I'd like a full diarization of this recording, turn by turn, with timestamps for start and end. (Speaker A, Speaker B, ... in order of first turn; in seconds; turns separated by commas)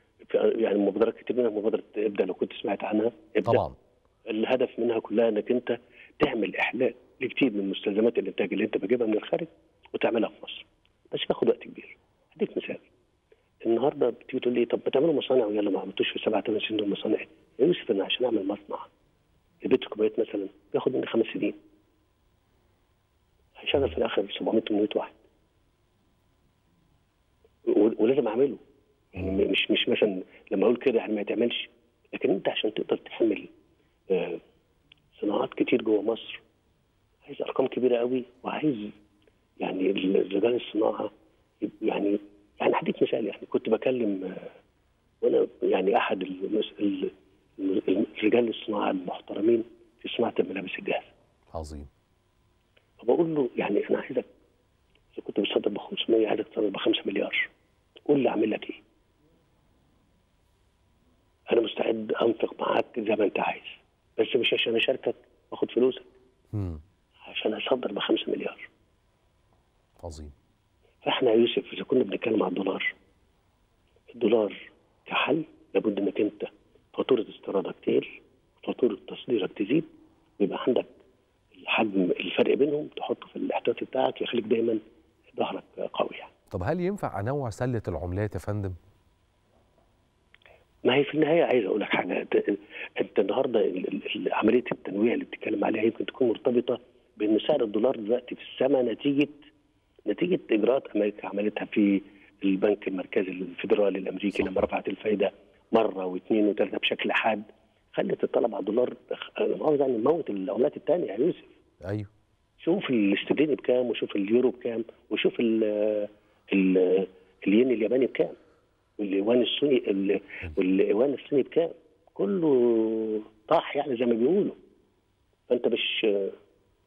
Speaker A: 0.3-3.6, Speaker B: 3.4-3.8, Speaker A: 4.3-12.8, Speaker A: 13.6-18.9, Speaker A: 19.6-21.6, Speaker A: 23.6-25.2, Speaker A: 27.7-28.6, Speaker A: 29.1-33.5, Speaker A: 34.1-34.4, Speaker A: 35.1-36.4, Speaker A: 37.2-38.9, Speaker A: 39.6-41.1, Speaker A: 41.6-44.5, Speaker A: 45.2-51.1, Speaker B: 51.5-51.9, Speaker A: 53.0-54.3, Speaker A: 55.1-57.5, Speaker A: 58.1-58.8, Speaker A: 61.5-66.1, Speaker B: 66.5-66.8, Speaker A: 67.2-68.7, Speaker B: 70.0-70.3, Speaker A: 71.0-72.9, Speaker A: 74.1-79.9, Speaker A: 80.4-80.9, Speaker A: 81.5-84.8, Speaker A: 85.3-86.3, Speaker B: 86.5-88.8, Speaker A: 90.8-99.3, Speaker A: 100.1-111.5, Speaker B: 104.3-104.7, Speaker A: 112.6-118.4, Speaker A: 119.0-124.5, Speaker A: 125.5-126.3